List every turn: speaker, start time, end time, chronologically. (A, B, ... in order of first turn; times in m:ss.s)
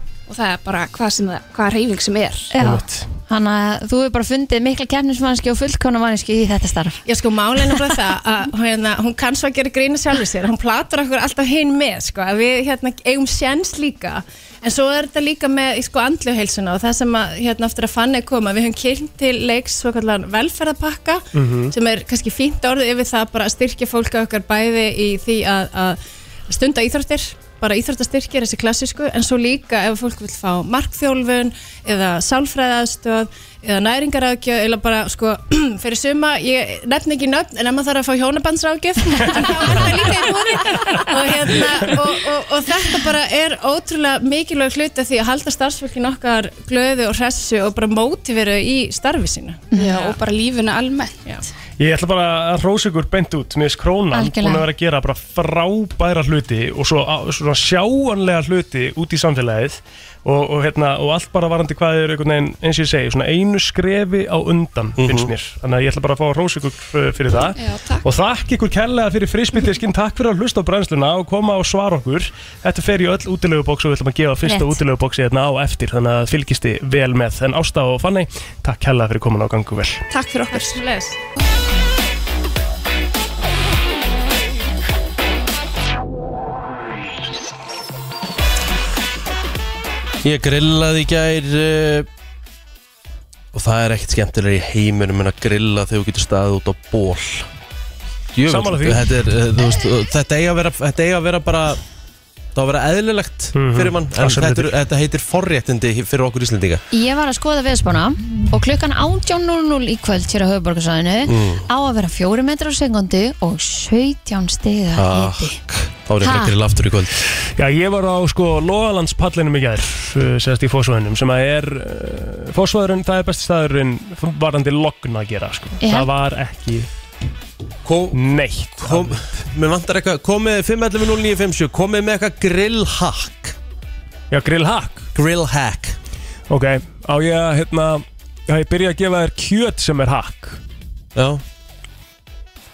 0:00.3-0:02.5 A
0:02.5-0:07.0 B
0:02.6-0:03.1 C
0:07.0-0:50.0 D
0:21.3-0:21.7 C
0:49.7-0:50.1 B
0:49.7-0:51.2 A
0:51.8-1:20.0 C
0:54.1-0:54.7 B
1:05.0-1:05.3 E
1:07.5-1:08.0 A
1:14.5-1:14.8 B
1:20.1-1:20.8 A
1:20.5-1:21.2 D
1:30.2-1:32.1 E
1:33.5-1:37.5 E
1:38.3-1:41.8 E
1:38.5-1:39.0 C
1:42.5-1:46.8 E
1:43.5-1:44.7 C
1:46.9-1:55.6 B
1:51.2-1:51.7 E
1:54.9-1:57.2 E
1:56.2-1:56.6 B
1:57.5-2:06.9 C
2:05.8-2:06.1 B
2:07.8-2:08.2 E
2:08.1-2:09.2 C
2:08.8-2:13.6 E
2:14.3-2:15.1 C
2:15.1-2:16.0 E
2:16.5-2:20.6 C
2:21.1-2:21.4 E